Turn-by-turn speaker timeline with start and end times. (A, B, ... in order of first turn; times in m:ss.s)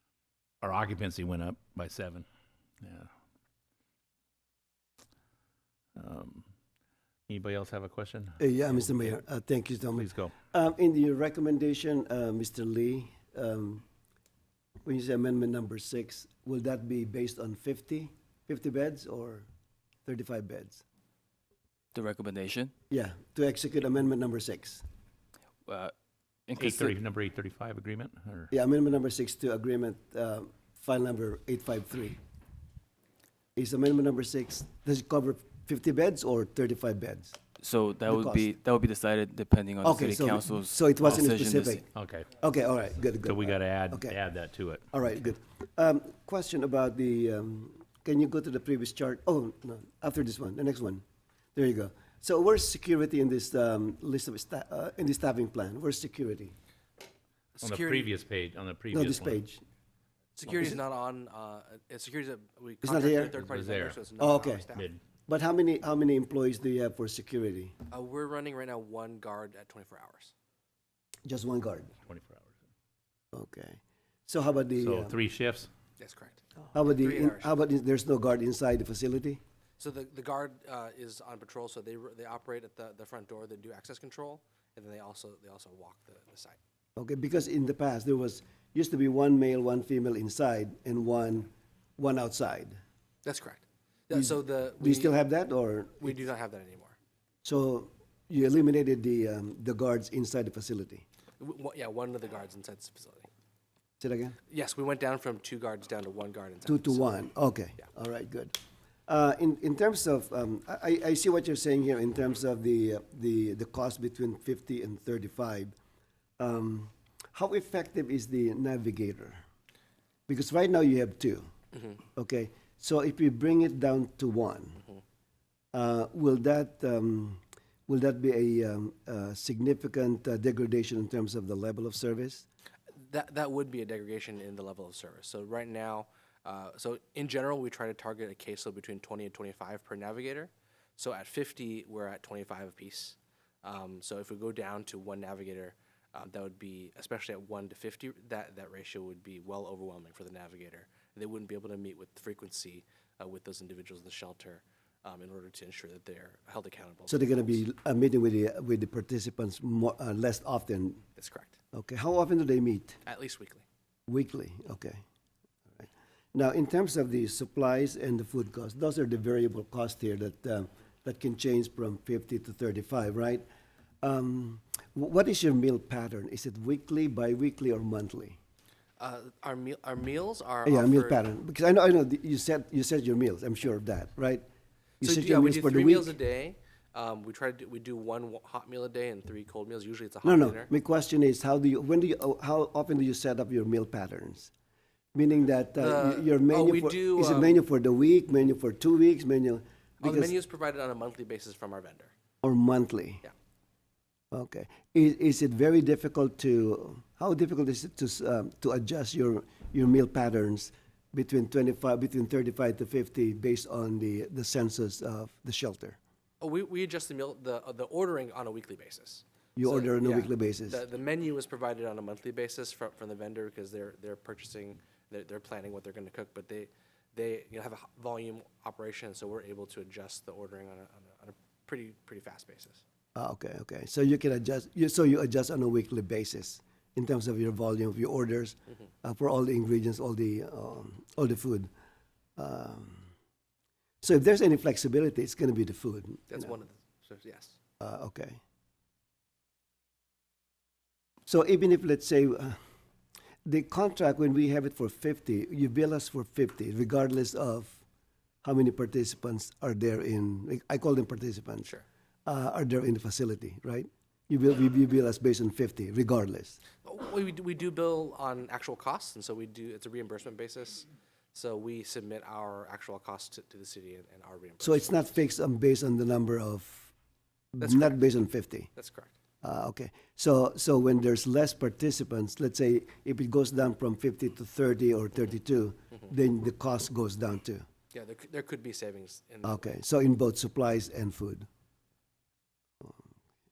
0:00.6-0:02.2 A
0:02.8-0:03.1 A
0:05.9-0:06.5 A
0:07.3-0:09.1 A
0:08.4-0:13.8 B
0:10.0-0:10.3 A
0:14.8-0:19.5 B
0:20.0-0:20.8 B
0:21.9-0:22.7 C
0:22.9-0:24.8 B
0:25.6-0:25.9 C
0:26.5-0:26.9 C
0:26.6-0:28.5 A
0:28.5-0:32.2 B
0:33.5-0:37.4 B
0:37.6-0:41.8 C
0:38.1-0:38.5 B
0:39.8-0:41.8 B
0:41.9-0:42.3 A
0:42.4-0:44.2 B
0:43.2-0:44.8 A
0:44.9-0:51.0 B
0:51.5-0:56.5 B
0:57.6-0:58.1 D
0:57.6-0:59.4 A
0:58.9-0:59.6 B
1:00.4-1:04.9 D
1:00.5-1:00.7 B
1:02.8-1:03.3 B
1:03.3-1:04.0 A
1:04.2-1:04.7 B
1:04.7-1:05.0 A
1:05.3-1:07.7 B
1:07.9-1:10.3 D
1:11.2-1:11.9 B
1:12.0-1:12.5 A
1:13.3-1:15.2 B
1:14.8-1:15.7 A
1:16.0-1:17.5 D
1:16.7-1:19.4 B
1:19.8-1:26.6 D
1:27.0-1:32.8 B
1:33.2-1:35.2 D
1:34.1-1:36.2 B
1:36.0-1:36.9 D
1:37.4-1:41.0 B
1:41.4-1:43.3 D
1:44.0-1:44.4 B
1:44.5-1:47.2 D
1:46.6-1:55.7 B
1:56.4-1:59.4 B
2:00.3-2:01.5 B
2:01.7-2:02.0 D
2:02.1-2:04.8 B
2:05.7-2:12.4 B
2:13.0-2:37.6 D
2:37.1-2:41.0 B
2:41.2-2:41.6 D
2:41.7-2:43.0 B
2:43.0-2:43.6 D
2:44.1-2:45.0 B
2:45.7-2:53.4 B
2:54.0-2:58.4 B
2:59.0-3:01.2 D
3:00.6-3:04.4 B
3:05.0-3:06.1 B
3:05.0-3:10.7 D
3:10.2-3:14.5 B
3:15.1-3:20.3 B
3:15.8-3:17.6 D
3:20.0-3:22.1 D
3:22.4-3:23.2 B
3:24.3-3:36.0 B
3:36.4-3:52.8 D
3:39.6-3:40.8 B
3:53.1-4:01.7 B
4:02.4-4:03.1 B
4:04.0-4:06.5 B
4:06.3-4:07.6 D
4:07.8-4:08.4 B
4:11.3-4:12.6 B
4:13.4-4:17.8 B
4:18.4-4:21.7 B
4:22.2-4:26.6 B
4:26.8-4:35.2 D
4:34.6-4:36.9 B
4:37.5-4:38.7 B
4:37.6-4:38.1 D
4:38.7-4:39.1 D
4:39.4-4:47.6 B
4:47.9-4:49.7 D
4:49.4-4:51.5 B